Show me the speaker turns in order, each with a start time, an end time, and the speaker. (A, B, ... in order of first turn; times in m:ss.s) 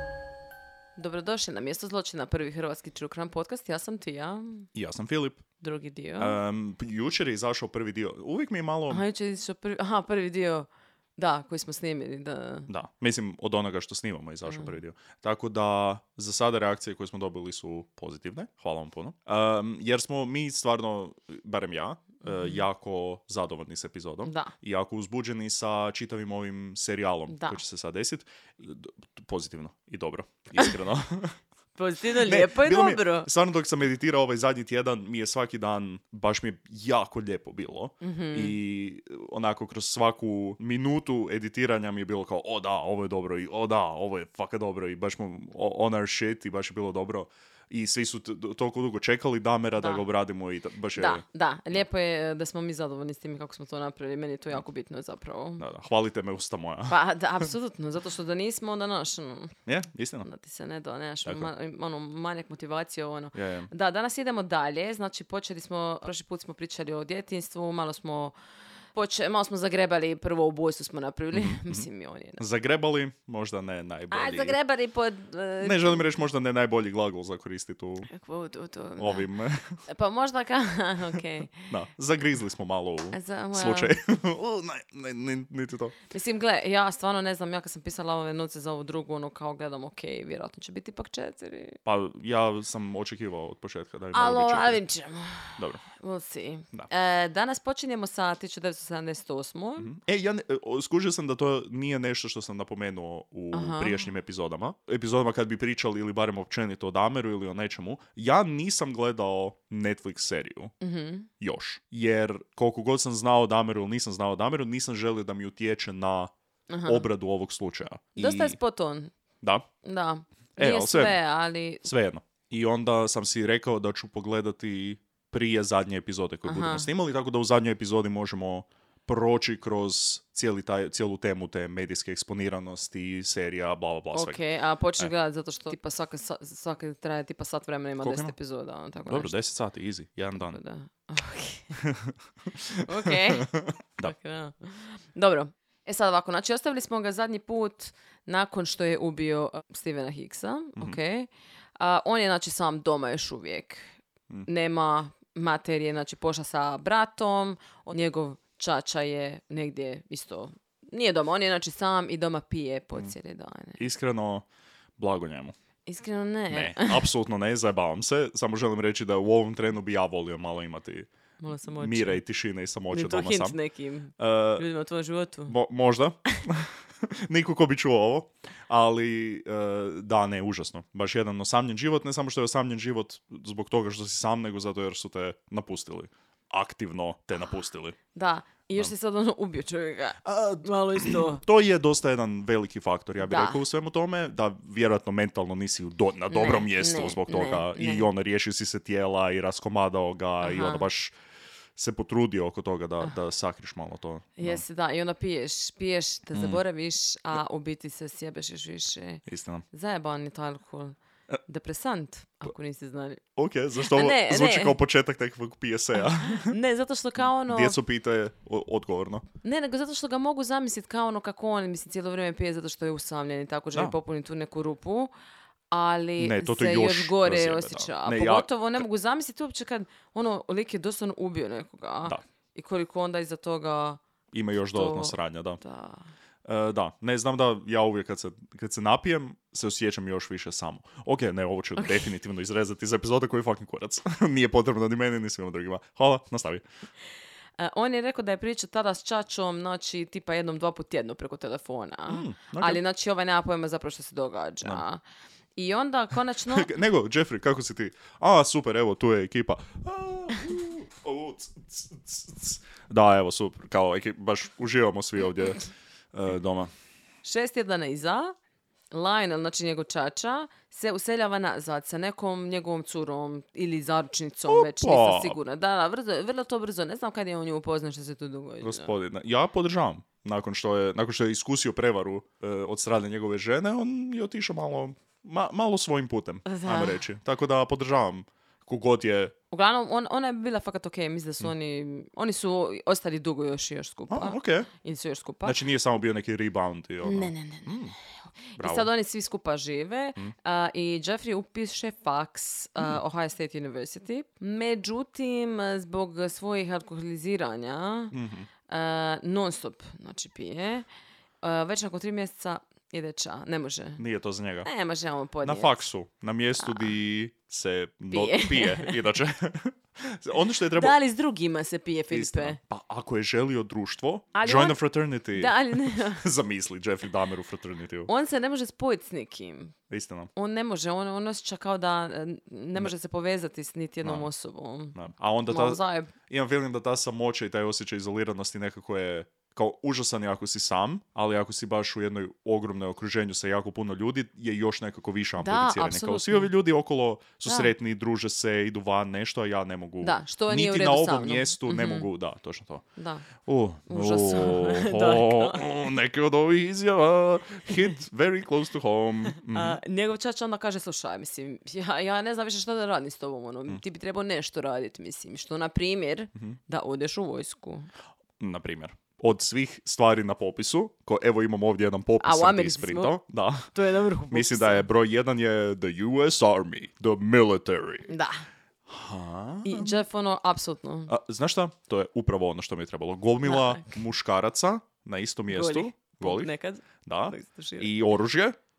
0:01.0-0:04.7 A
0:04.7-0:05.4 B
0:05.6-0:06.4 A
0:06.2-0:09.0 B
0:08.9-0:12.7 A
0:12.7-0:31.4 B
0:14.4-0:14.7 A
0:22.2-0:22.6 A
0:24.2-0:24.5 A
0:27.3-0:27.6 A
0:31.8-0:33.3 A
0:32.2-0:51.8 B
0:38.0-0:38.6 A
0:50.9-0:55.6 A
0:55.6-0:57.4 B
0:56.9-0:59.6 A
0:59.7-1:00.3 B
1:00.2-1:08.3 A
1:01.2-1:01.5 B
1:03.3-1:03.7 B
1:08.9-1:12.4 A
1:11.3-1:11.8 B
1:12.4-1:14.6 B
1:14.1-1:16.0 A
1:15.6-1:18.1 B
1:18.1-1:19.3 A
1:19.0-1:19.8 B
1:19.9-1:21.7 A
1:21.7-1:25.9 B
1:23.1-1:24.0 A
1:26.1-1:31.8 A
1:31.8-1:34.8 B
1:34.1-1:39.9 A
1:35.6-1:35.8 B
1:39.8-1:50.7 B
1:43.5-1:44.0 A
1:50.8-1:51.3 A
1:51.4-1:56.3 B
1:56.7-1:57.1 A
1:56.8-1:58.6 B
1:58.2-1:59.1 A
1:59.4-1:59.7 B
1:59.8-2:01.8 A
2:00.6-2:01.2 B
2:01.8-2:14.4 B
2:06.4-2:06.9 A
2:14.1-2:19.3 A
2:18.0-2:18.3 B
2:19.1-2:20.6 B
2:20.3-2:21.8 A
2:21.8-2:24.1 B
2:22.8-2:23.5 A
2:24.0-2:33.9 A
2:34.4-2:43.8 A
2:43.8-2:44.4 B
2:45.0-2:45.5 B
2:45.8-2:47.0 A
2:46.5-2:51.1 B
2:51.4-2:52.2 A
2:51.7-2:53.6 B
2:52.9-2:55.5 A
2:54.2-2:54.6 B
2:55.5-3:08.0 B
3:08.1-3:11.4 A
3:10.2-3:21.1 B
3:13.2-3:13.6 A
3:16.3-3:18.1 A
3:20.4-3:20.9 A
3:21.8-3:24.6 B
3:24.4-3:33.2 A
3:26.3-3:26.6 B
3:29.2-3:29.6 B
3:33.4-3:36.6 B
3:33.9-3:34.8 A
3:36.2-3:37.8 A
3:37.4-3:39.2 B
3:39.4-3:45.1 A
3:45.7-3:54.0 A
3:46.2-3:48.8 B
3:54.3-3:55.6 B
3:54.7-3:56.1 A
3:56.4-4:06.6 B
4:07.6-4:15.0 A
4:12.1-4:12.8 B
4:15.6-4:16.7 A
4:16.5-4:26.7 B
4:27.2-4:28.3 A
4:28.9-4:38.9 A
4:34.5-4:35.4 B
4:38.6-4:49.3 B
4:46.4-4:47.0 A
4:49.5-4:55.6 A
4:54.1-4:54.7 B
4:55.4-4:58.0 B
4:57.0-4:57.8 A
4:58.5-5:08.1 A
4:58.6-4:58.9 B
5:08.1-5:08.5 B
5:08.7-5:10.8 A
5:11.4-5:14.0 A
5:14.0-5:14.7 B
5:14.6-5:15.8 A
5:15.4-5:20.9 B
5:18.1-5:19.0 A
5:20.7-5:22.6 A
5:22.1-5:28.1 B
5:24.3-5:24.8 A
5:25.3-5:26.3 A
5:28.1-5:29.8 A
5:29.9-5:30.3 B
5:30.4-5:35.0 A
5:34.0-5:34.3 B
5:34.9-5:52.8 B
5:35.5-5:36.1 A
5:45.4-5:46.5 A
5:47.4-5:47.7 A
5:50.0-5:52.1 A
5:53.0-5:53.3 A
5:53.4-5:59.8 B
5:53.9-5:55.7 A
5:59.3-6:07.9 A
6:08.4-6:13.7 B
6:12.2-6:13.2 A
6:13.7-6:14.8 A
6:14.3-6:18.1 B
6:18.1-6:18.4 A
6:18.9-6:20.0 B
6:19.6-6:21.1 A
6:21.1-6:26.5 B
6:23.4-6:23.9 A
6:25.5-6:27.9 A
6:27.0-6:28.6 B